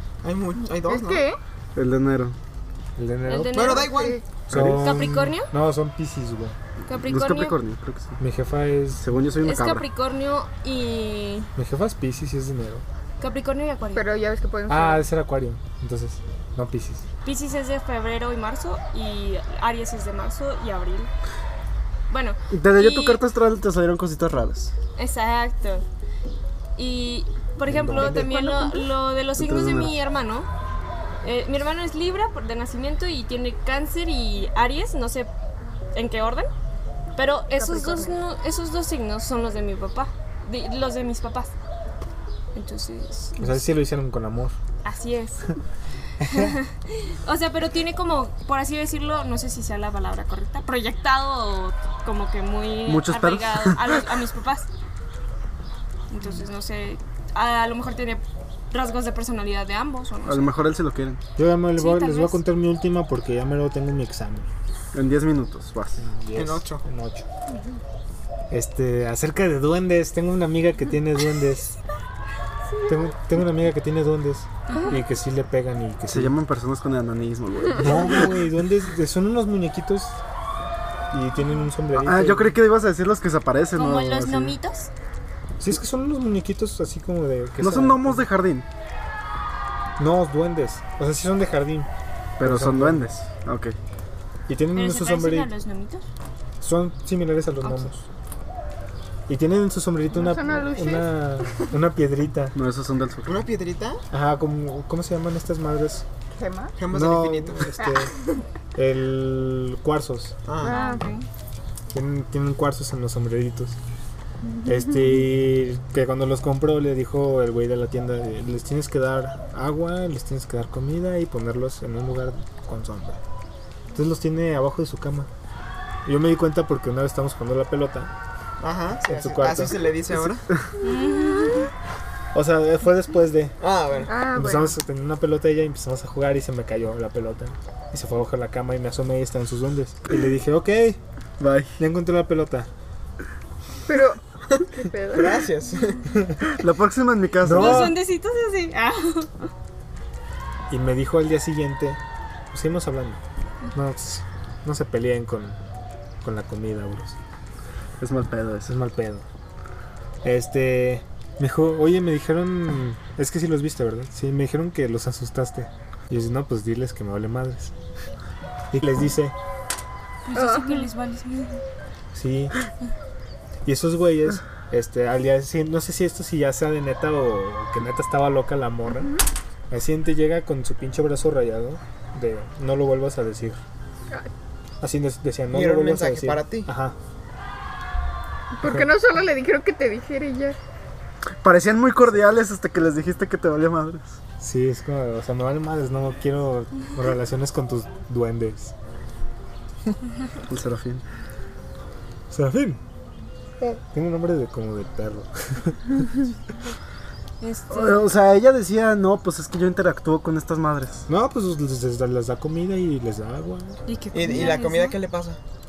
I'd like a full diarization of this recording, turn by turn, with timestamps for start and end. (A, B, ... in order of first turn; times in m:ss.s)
0:00.2-0:01.2 A
0:00.8-0:01.4 B
0:01.7-0:02.4 C
0:03.0-0:03.8 D
0:03.2-0:04.0 E
0:03.5-0:04.2 A
0:03.7-0:04.2 B
0:04.5-0:06.6 D
0:04.5-0:04.8 C
0:04.7-0:05.5 E
0:06.9-0:07.6 E
0:06.9-0:08.2 C
0:08.2-0:09.1 D
0:09.0-0:09.8 C
0:09.4-0:11.5 E
0:11.6-0:12.8 D
0:13.2-0:14.0 E
0:13.9-0:15.1 B
0:14.7-0:17.0 D
0:17.2-0:21.1 E
0:22.1-0:23.2 E
0:22.5-0:24.7 C
0:25.0-0:25.8 E
0:26.8-0:30.5 E
0:27.7-0:28.3 D
0:28.0-0:28.9 B
0:29.4-0:29.9 C
0:31.2-0:35.3 E
0:35.9-0:36.5 E
0:37.2-0:41.5 E
0:37.5-0:38.2 B
0:42.5-0:43.6 E
0:43.4-0:44.5 D
0:44.8-0:45.5 E
0:46.2-0:46.5 D
0:46.2-0:54.7 E
0:52.8-0:54.0 C
0:56.1-1:00.5 E
1:00.2-1:01.2 C
1:01.4-1:04.5 D
1:01.8-1:02.4 E
1:04.9-1:06.0 C
1:06.0-1:07.2 D
1:06.3-1:06.8 A
1:07.5-1:07.8 B
1:08.5-1:11.7 D
1:12.7-1:13.0 B
1:12.9-1:16.3 D
1:14.7-1:15.0 E
1:16.1-1:18.3 C
1:17.8-1:20.2 D
1:21.1-1:22.6 D
1:21.9-1:24.6 C
1:23.7-1:24.9 E
1:25.6-1:28.3 D
1:27.6-1:28.6 C
1:30.0-1:31.9 D
1:32.4-1:33.8 C
1:32.4-1:33.1 D
1:34.5-1:35.5 D
1:34.7-1:36.0 E
1:36.6-1:38.0 D
1:37.6-1:37.9 E
1:39.3-1:42.5 D
1:40.1-1:41.7 B
1:42.5-1:43.3 C
1:43.2-1:44.0 A
1:44.1-1:46.0 D
1:46.4-1:46.7 B
1:46.8-1:47.7 A
1:46.9-1:48.1 D
1:48.7-1:50.4 D
1:50.4-1:50.8 A
1:50.6-1:51.1 B
1:50.6-1:51.2 E
1:51.9-1:53.8 D
1:54.4-1:55.1 B
1:54.6-2:03.2 D
2:03.9-2:05.3 D
2:06.0-2:08.1 D
2:08.6-2:10.4 A
2:09.0-2:09.8 D
2:10.8-2:11.7 B
2:10.8-2:11.7 E
2:12.3-2:13.6 D
2:13.6-2:14.1 A
2:14.1-2:14.8 B
2:14.2-2:21.0 D
2:21.4-2:21.8 C
2:21.8-2:22.7 D
2:23.9-2:25.4 B
2:25.1-2:26.0 A
2:26.6-2:27.9 C
2:27.4-2:28.0 D
2:27.5-2:29.5 E
2:30.7-2:32.0 D
2:32.5-2:33.2 D
2:33.7-2:35.6 D
2:36.2-2:37.2 D
2:38.0-2:38.8 C
2:38.7-2:39.2 D
2:40.2-2:47.7 D
2:48.7-2:49.3 D
2:50.2-2:51.6 E
2:50.3-2:50.9 B
2:52.1-2:52.5 D
2:53.6-2:59.1 D
2:58.9-2:59.2 B
2:59.7-3:03.6 D
3:04.8-3:07.0 D
3:05.5-3:06.7 A
3:08.5-3:10.6 B
3:08.6-3:08.9 D
3:11.4-3:14.2 C
3:14.4-3:18.7 D
3:20.5-3:21.0 C
3:22.3-3:22.8 D
3:23.8-3:26.1 D
3:27.4-3:28.1 E
3:27.7-3:31.1 C
3:31.1-3:33.8 D
3:33.9-3:35.0 E
3:34.1-3:35.4 A